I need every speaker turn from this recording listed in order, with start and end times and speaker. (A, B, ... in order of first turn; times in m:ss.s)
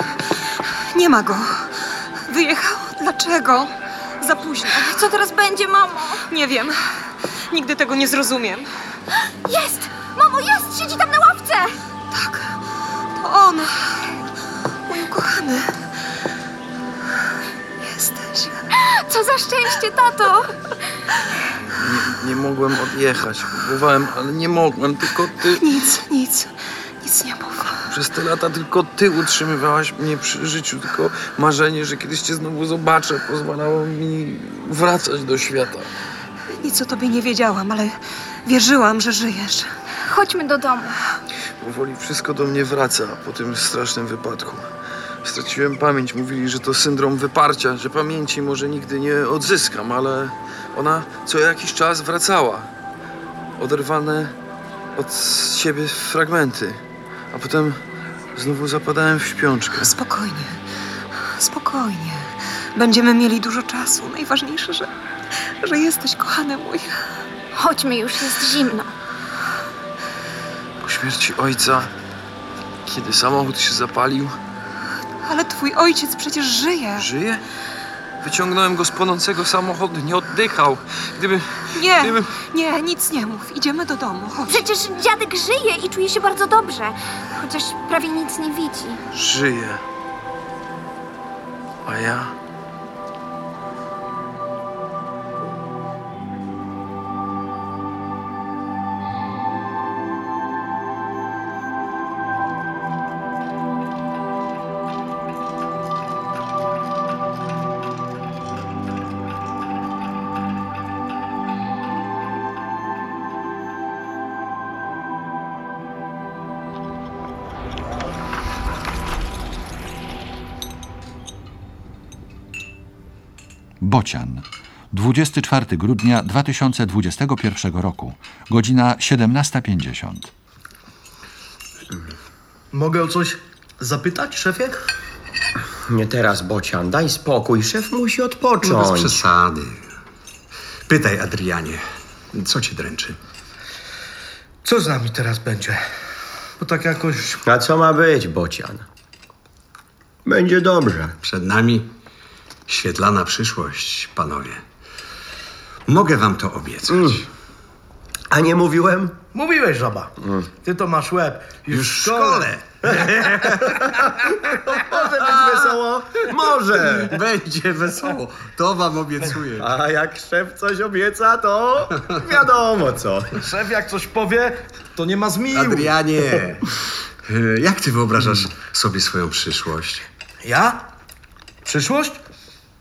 0:00.9-0:05.0 A
0:04.7-0:06.2 B
0:06.3-0:08.7 A
0:09.5-0:11.8 B
0:12.1-0:12.6 A
0:13.1-0:14.0 A
0:14.9-0:15.7 A
0:17.8-0:18.6 A
0:18.8-0:20.5 B
0:21.8-0:25.6 C
0:25.6-0:27.8 A
0:27.9-0:35.9 C
0:36.6-0:39.7 A
0:40.1-0:41.0 B
0:41.6-0:44.6 C
0:45.2-0:52.7 C
0:53.6-0:54.3 C
0:55.0-0:57.8 C
0:58.4-0:59.9 C
0:59.8-1:00.6 A
1:01.2-1:04.9 A
1:05.6-1:07.0 A
1:07.5-1:08.9 B
1:10.8-1:11.9 C
1:12.8-1:14.4 C
1:15.2-1:17.1 A
1:17.0-1:17.4 C
1:18.2-1:22.3 C
1:21.8-1:24.6 A
1:24.5-1:29.0 B
1:29.1-1:29.8 C
1:31.8-1:32.3 C
2:03.8-2:10.3 D
2:12.7-2:14.8 E
2:15.9-2:19.2 F
2:18.6-2:19.8 G
2:20.9-2:21.8 G
2:22.3-2:23.2 G
2:24.6-2:25.8 E
2:26.6-2:27.4 E
2:27.4-2:28.9 F
2:30.2-2:31.2 F
2:31.2-2:31.9 G
2:32.7-2:34.6 G
2:35.9-2:37.2 G
2:36.9-2:37.2 F
2:38.3-2:39.2 F
2:39.3-2:43.9 E
2:41.7-2:43.6 G
2:43.4-2:47.2 F
2:44.9-2:45.8 E
2:47.1-2:49.7 G
2:49.6-2:53.4 F
2:53.4-2:56.0 E
2:55.5-2:56.7 G
2:57.2-3:00.1 G
3:00.4-3:00.9 E
3:01.6-3:02.2 E